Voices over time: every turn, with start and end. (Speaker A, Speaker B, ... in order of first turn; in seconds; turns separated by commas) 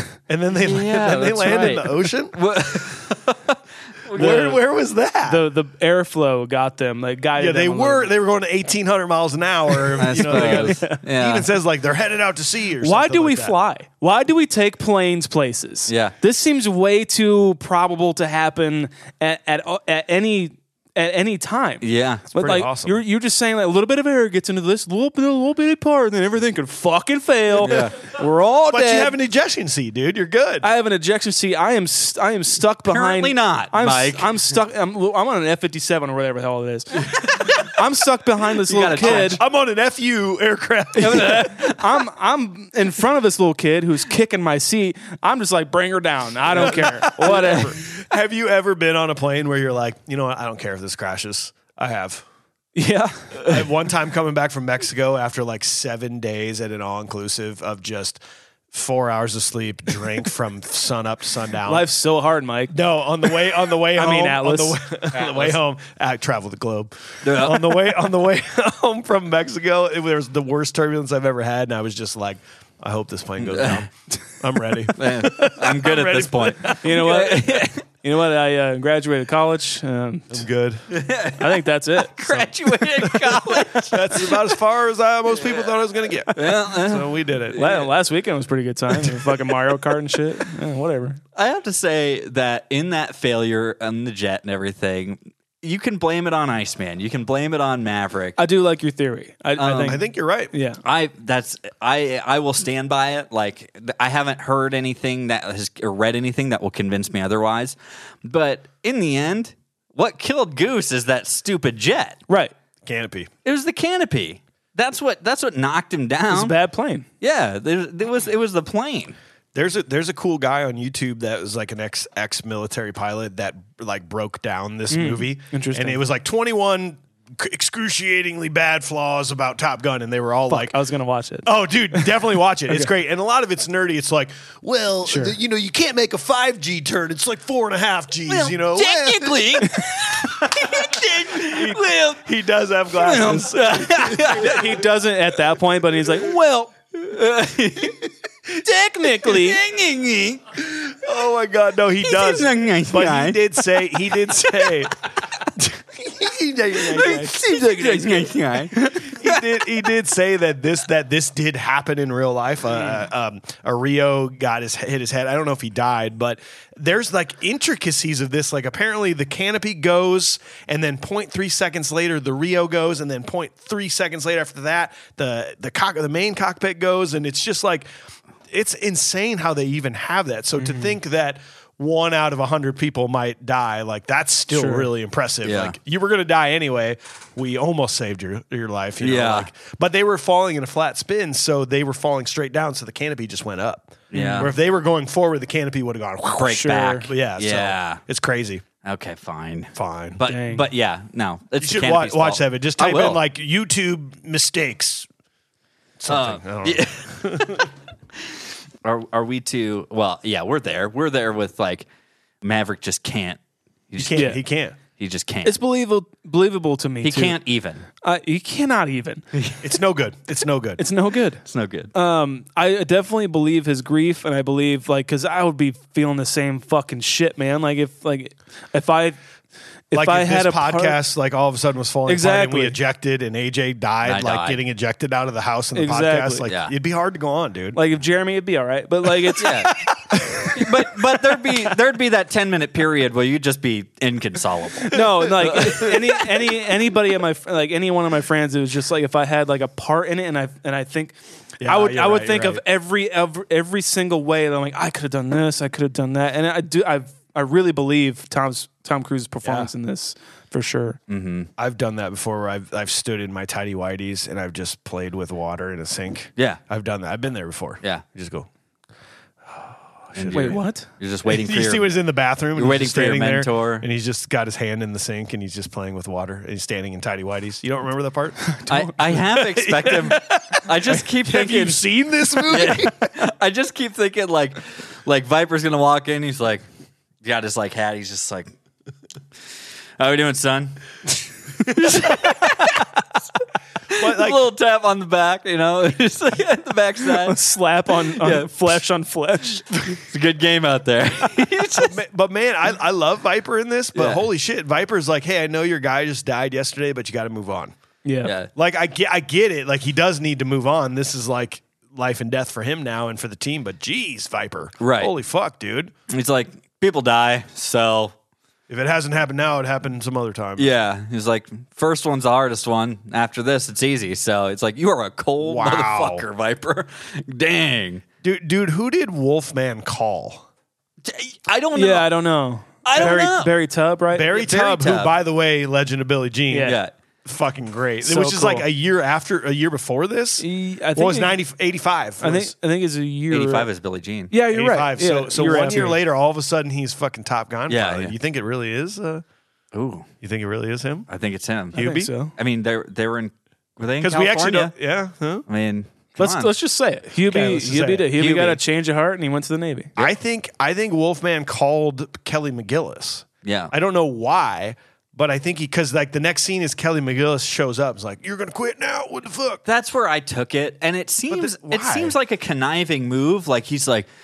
Speaker A: 0.3-2.4, Speaker B: 0.5-4.6, Speaker A: 4.1-5.5, Speaker C: 4.2-4.6, Speaker C: 5.2-8.1, Speaker A: 7.4-13.5, Speaker C: 9.9-11.0, Speaker B: 10.0-11.5, Speaker C: 12.8-29.1, Speaker B: 15.9-16.1, Speaker B: 21.8-22.2, Speaker A: 22.4-23.0, Speaker B: 27.6-27.9, Speaker A: 28.7-30.7, Speaker C: 30.6-39.4, Speaker B: 32.9-34.3, Speaker B: 37.1-37.7, Speaker B: 38.7-39.4, Speaker A: 39.0-41.5, Speaker C: 41.0-47.8, Speaker B: 41.0-41.8, Speaker A: 46.5-52.2, Speaker C: 52.7-53.4, Speaker A: 53.4-58.2, Speaker A: 58.7-61.9, Speaker C: 61.6-62.7, Speaker A: 62.7-73.9, Speaker C: 63.9-64.8, Speaker B: 65.1-65.6, Speaker B: 67.2-67.9, Speaker B: 73.4-73.9, Speaker A: 74.4-76.8, Speaker B: 75.0-77.7, Speaker C: 75.2-75.6, Speaker C: 76.8-80.4, Speaker A: 80.3-80.8, Speaker B: 80.9-84.5, Speaker C: 81.4-82.5, Speaker A: 83.9-87.6, Speaker B: 85.4-85.7, Speaker B: 86.3-87.9, Speaker C: 87.5-91.2, Speaker A: 89.0-89.4, Speaker B: 91.3-98.4, Speaker C: 98.4-100.8, Speaker B: 99.6-100.0, Speaker A: 99.8-100.5, Speaker B: 100.8-112.2, Speaker C: 112.3-112.5, Speaker A: 112.8-113.3, Speaker B: 113.4-116.5, Speaker C: 116.3-117.0, Speaker B: 117.2-119.2, Speaker A: 119.5-130.8, Speaker C: 124.9-126.0, Speaker C: 130.5-132.1, Speaker A: 131.4-144.7, Speaker C: 135.1-135.3, Speaker B: 138.3-142.2, Speaker B: 142.9-144.6, Speaker C: 143.8-146.7, Speaker B: 146.9-148.1, Speaker C: 148.5-149.6, Speaker B: 149.2-150.5, Speaker A: 150.6-154.9, Speaker B: 152.0-154.8, Speaker A: 155.6-158.2, Speaker B: 156.8-159.5, Speaker A: 159.0-177.9, Speaker A: 178.5-198.6, Speaker C: 180.6-180.9, Speaker C: 184.5-184.9, Speaker B: 185.4-185.8, Speaker B: 189.0-189.5, Speaker B: 194.1-194.5, Speaker C: 194.1-194.5, Speaker B: 196.4-198.0, Speaker C: 196.4-197.1, Speaker B: 198.8-203.2, Speaker A: 199.7-200.2, Speaker C: 200.2-200.7, Speaker A: 201.6-205.1, Speaker A: 206.0-207.7, Speaker B: 206.1-207.7, Speaker B: 208.2-211.8, Speaker B: 212.4-213.4, Speaker B: 213.9-214.4, Speaker A: 214.0-214.8, Speaker B: 214.9-215.6, Speaker C: 215.4-217.4, Speaker B: 217.0-217.8, Speaker C: 218.0-219.2, Speaker A: 219.6-220.8, Speaker C: 220.8-221.4, Speaker B: 221.4-221.9, Speaker C: 221.9-229.2, Speaker C: 229.9-231.0, Speaker A: 229.9-237.8, Speaker C: 232.1-232.8, Speaker B: 234.0-234.6, Speaker C: 235.7-236.5, Speaker B: 236.5-236.7, Speaker C: 237.7-239.7, Speaker B: 239.4-239.8, Speaker A: 240.1-240.5, Speaker B: 240.5-246.0, Speaker C: 244.9-261.0, Speaker A: 251.6-252.6, Speaker A: 259.4-259.7, Speaker B: 261.1-261.5, Speaker A: 261.6-268.5, Speaker A: 269.5-270.6, Speaker B: 270.1-271.9, Speaker C: 270.3-270.9, Speaker A: 271.2-278.4, Speaker B: 272.5-273.9, Speaker C: 278.5-279.2, Speaker B: 278.7-286.6, Speaker A: 279.6-280.2, Speaker A: 281.2-283.1, Speaker B: 287.2-288.5, Speaker B: 290.0-293.0, Speaker B: 293.9-298.8, Speaker A: 293.9-294.4, Speaker C: 297.2-299.7, Speaker B: 299.8-302.0, Speaker A: 301.8-307.7, Speaker B: 303.9-304.3, Speaker C: 308.0-308.3, Speaker B: 308.2-308.5, Speaker A: 308.5-315.9, Speaker B: 314.8-315.1, Speaker B: 316.1-318.1, Speaker A: 318.7-320.7, Speaker B: 320.6-328.0, Speaker A: 325.4-326.2, Speaker A: 328.2-330.5, Speaker B: 331.0-332.1, Speaker C: 331.7-334.3, Speaker B: 332.8-333.5, Speaker A: 334.1-342.5, Speaker B: 334.3-335.1, Speaker C: 336.5-336.8, Speaker B: 336.6-336.9, Speaker C: 338.0-338.6, Speaker C: 340.4-341.4, Speaker C: 342.2-343.7, Speaker B: 343.3-344.3, Speaker C: 344.3-346.0, Speaker A: 344.5-349.2, Speaker B: 347.7-348.1, Speaker B: 349.7-350.1, Speaker A: 350.2-351.1, Speaker B: 351.1-354.7, Speaker A: 351.7-352.1, Speaker C: 351.7-352.3, Speaker A: 354.0-355.4, Speaker B: 355.5-356.5, Speaker C: 356.2-359.9, Speaker A: 357.2-358.1, Speaker B: 358.1-358.6, Speaker A: 360.0-369.6, Speaker B: 363.4-363.7, Speaker B: 369.6-374.1, Speaker A: 371.3-372.1